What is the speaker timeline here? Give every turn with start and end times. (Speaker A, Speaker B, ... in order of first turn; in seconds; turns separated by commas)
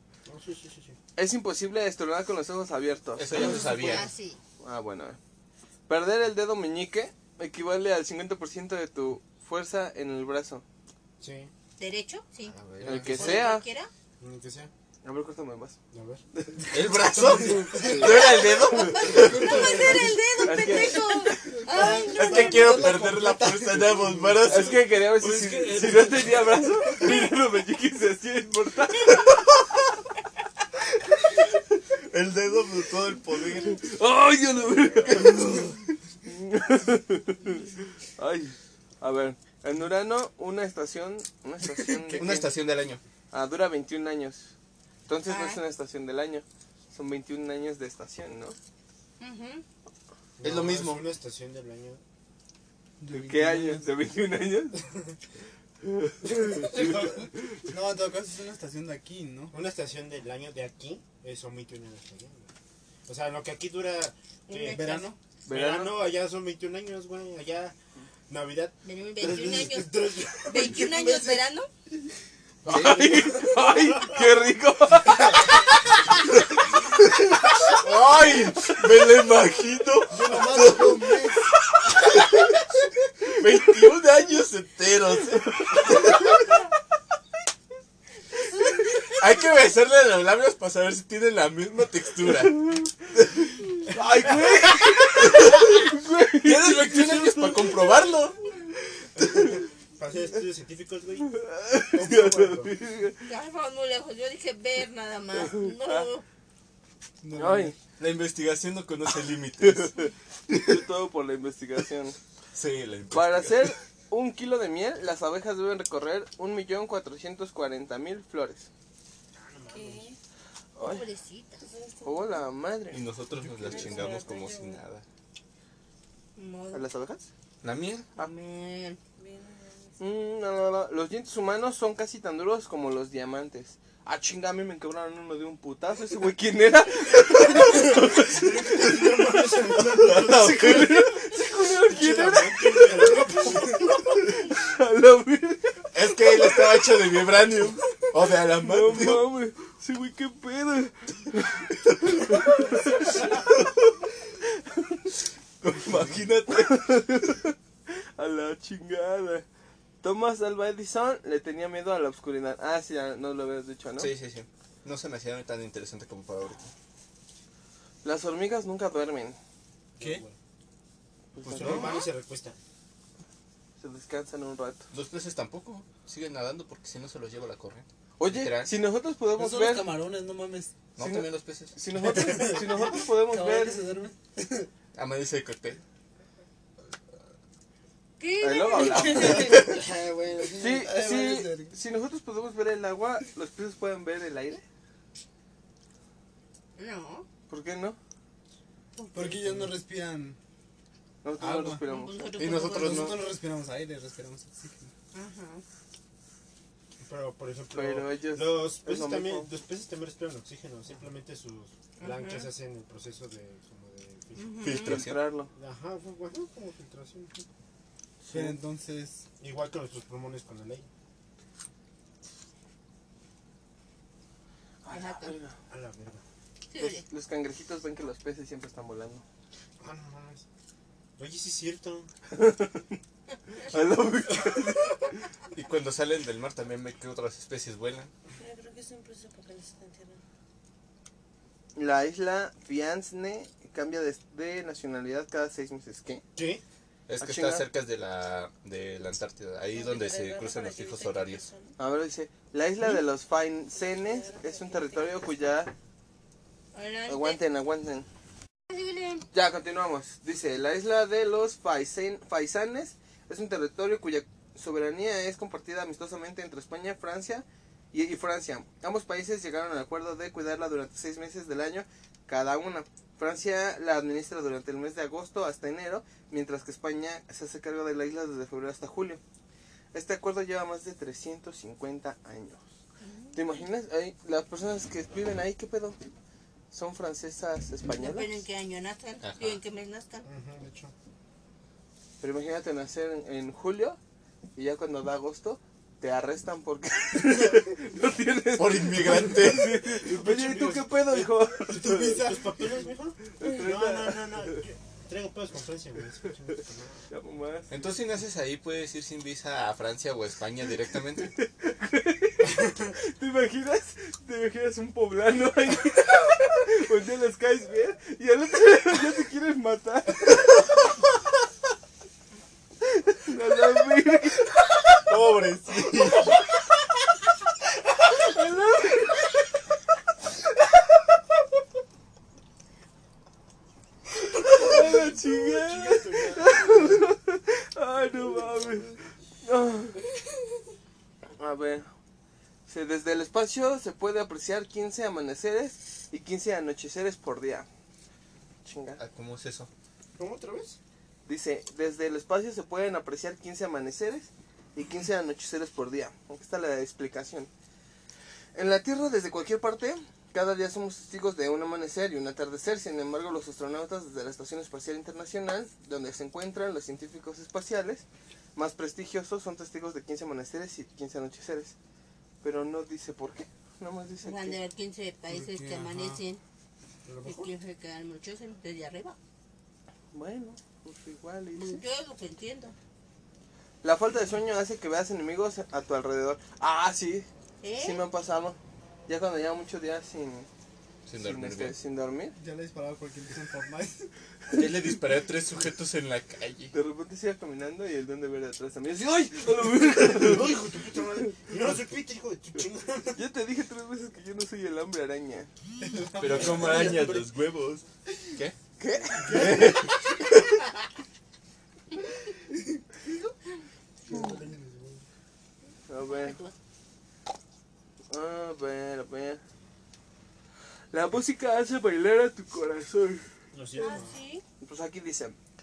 Speaker A: 0.2-1.0, Speaker B: 1.1-3.9, Speaker C: 3.2-4.1, Speaker D: 3.3-4.4, Speaker B: 4.6-5.2, Speaker B: 5.9-10.6, Speaker A: 11.2-11.5, Speaker D: 11.8-13.9, Speaker A: 12.4-13.4, Speaker B: 12.8-13.6, Speaker A: 14.2-14.7, Speaker B: 15.0-15.8, Speaker A: 15.9-16.2, Speaker B: 16.4-16.7, Speaker C: 16.7-19.6, Speaker E: 17.3-18.1, Speaker B: 17.4-19.2, Speaker D: 18.0-23.0, Speaker E: 19.1-20.7, Speaker B: 20.4-21.4, Speaker E: 21.4-27.1, Speaker C: 22.0-24.9, Speaker B: 24.4-29.3, Speaker C: 29.1-29.8, Speaker C: 32.0-33.8, Speaker B: 33.7-35.7, Speaker B: 36.2-42.5, Speaker C: 42.0-43.0, Speaker B: 43.3-44.5, Speaker B: 45.1-48.6, Speaker D: 45.2-45.6, Speaker D: 49.2-49.6, Speaker A: 50.4-52.0, Speaker C: 50.4-51.1, Speaker E: 53.0-53.9, Speaker B: 53.1-54.8, Speaker B: 55.8-57.0, Speaker E: 56.5-59.5, Speaker A: 59.5-62.5, Speaker A: 63.1-67.7, Speaker D: 64.5-65.1, Speaker E: 64.8-65.2, Speaker B: 65.5-66.1, Speaker A: 68.3-71.3, Speaker D: 68.8-71.7, Speaker C: 72.7-73.1, Speaker A: 72.7-74.1, Speaker B: 72.7-75.5, Speaker C: 77.2-82.5, Speaker E: 80.1-81.5, Speaker C: 83.3-86.1, Speaker C: 89.2-92.6, Speaker C: 93.2-93.5, Speaker B: 93.9-97.8, Speaker C: 95.2-95.6, Speaker C: 96.4-98.4, Speaker A: 100.0-101.4, Speaker B: 101.3-103.2, Speaker A: 101.9-102.7, Speaker D: 103.2-106.2, Speaker B: 105.3-106.1, Speaker E: 107.2-107.8, Speaker B: 107.3-107.8, Speaker C: 108.0-109.9, Speaker B: 109.6-112.2, Speaker C: 112.5-113.7, Speaker B: 113.1-118.7, Speaker A: 119.3-120.1, Speaker F: 119.7-120.2, Speaker B: 120.8-121.0, Speaker D: 120.8-121.6, Speaker F: 121.6-122.5, Speaker B: 122.0-123.0, Speaker C: 122.9-125.0, Speaker F: 123.5-124.8, Speaker D: 126.3-126.8, Speaker B: 126.7-127.3, Speaker C: 127.6-128.1, Speaker D: 128.2-129.0, Speaker F: 129.2-130.0, Speaker B: 130.0-145.9, Speaker A: 138.3-140.6, Speaker E: 138.7-139.8, Speaker C: 139.8-141.1, Speaker A: 141.9-144.2, Speaker E: 142.0-142.7, Speaker E: 143.4-143.8, Speaker C: 145.9-149.2, Speaker B: 148.6-153.7, Speaker B: 154.7-154.9, Speaker C: 155.6-156.7, Speaker B: 155.7-159.4, Speaker B: 160.0-164.1, Speaker C: 164.0-166.7, Speaker B: 168.0-169.4, Speaker A: 170.0-170.3, Speaker E: 170.0-170.2, Speaker B: 171.3-172.0, Speaker C: 171.4-172.0, Speaker A: 171.5-172.6, Speaker B: 173.8-174.8, Speaker C: 174.9-178.7, Speaker B: 178.2-180.0, Speaker E: 179.3-180.7, Speaker C: 180.9-181.8, Speaker B: 181.0-183.8, Speaker E: 182.0-184.7, Speaker C: 184.9-185.8, Speaker D: 188.2-189.4, Speaker B: 188.4-189.8, Speaker F: 188.8-189.6, Speaker E: 189.3-191.8, Speaker B: 190.6-194.6, Speaker D: 196.8-197.2, Speaker B: 197.5-198.0, Speaker D: 198.9-199.5, Speaker E: 199.1-200.4, Speaker B: 201.2-202.2, Speaker E: 201.4-201.8, Speaker D: 201.8-203.2, Speaker C: 202.4-203.2, Speaker E: 202.4-204.9, Speaker D: 205.1-205.6, Speaker A: 207.0-214.6, Speaker B: 207.7-209.5, Speaker D: 212.0-212.5, Speaker D: 214.4-215.0, Speaker C: 214.6-215.2, Speaker B: 214.7-215.5, Speaker A: 215.5-217.4, Speaker B: 218.3-218.5, Speaker E: 218.3-219.2, Speaker A: 219.4-220.9, Speaker B: 224.8-225.6, Speaker D: 224.9-225.3, Speaker A: 225.7-226.2, Speaker D: 226.7-227.0, Speaker B: 226.8-229.2, Speaker A: 229.8-230.4, Speaker A: 231.2-232.1, Speaker B: 232.3-233.0, Speaker B: 233.5-235.2, Speaker C: 235.5-238.1, Speaker F: 238.4-240.2, Speaker B: 241.7-246.2, Speaker A: 246.3-246.6, Speaker C: 247.1-251.5, Speaker B: 247.2-247.7, Speaker F: 249.7-251.8, Speaker B: 251.8-255.7, Speaker F: 253.8-255.3, Speaker D: 256.7-257.4, Speaker B: 257.1-258.1, Speaker D: 258.7-259.2, Speaker B: 259.3-279.2, Speaker B: 279.9-282.6, Speaker D: 283.0-283.6, Speaker B: 283.3-286.0, Speaker B: 286.7-288.4, Speaker D: 287.9-290.3, Speaker C: 289.2-289.6, Speaker A: 290.2-290.9, Speaker B: 292.2-294.0, Speaker B: 294.6-302.2, Speaker C: 298.6-299.8, Speaker A: 300.0-301.2, Speaker E: 301.2-302.7, Speaker A: 301.9-307.1, Speaker B: 303.4-304.6, Speaker B: 307.1-307.7, Speaker C: 307.7-311.3, Speaker B: 311.3-320.6, Speaker B: 322.9-324.5, Speaker C: 325.1-326.3, Speaker B: 328.1-329.3, Speaker B: 334.3-340.0, Speaker A: 335.5-337.0, Speaker B: 341.4-341.9, Speaker B: 342.7-347.7, Speaker B: 348.6-349.0, Speaker C: 349.0-349.7, Speaker A: 350.2-350.8, Speaker B: 351.2-357.5, Speaker B: 358.5-368.0, Speaker B: 368.6-371.7, Speaker B: 372.4-374.6, Speaker D: 374.2-376.4, Speaker E: 375.3-376.2, Speaker A: 377.0-377.5, Speaker D: 377.2-379.2, Speaker B: 380.1-381.8, Speaker D: 381.6-382.7, Speaker B: 383.8-387.3, Speaker D: 387.6-388.0, Speaker B: 387.8-390.5, Speaker C: 391.1-391.8, Speaker B: 391.2-392.3, Speaker E: 392.4-394.1, Speaker C: 394.5-396.7, Speaker B: 396.7-400.6, Speaker A: 400.1-403.2, Speaker B: 403.1-405.5, Speaker E: 405.8-407.1, Speaker C: 406.2-408.6, Speaker A: 406.3-407.2, Speaker B: 408.8-410.0, Speaker A: 409.2-409.8, Speaker E: 409.3-409.8, Speaker A: 414.1-415.0, Speaker B: 415.9-416.4, Speaker D: 416.1-416.5, Speaker B: 418.1-419.4, Speaker B: 420.9-423.3, Speaker A: 423.5-424.2, Speaker D: 423.8-424.4, Speaker B: 424.6-425.4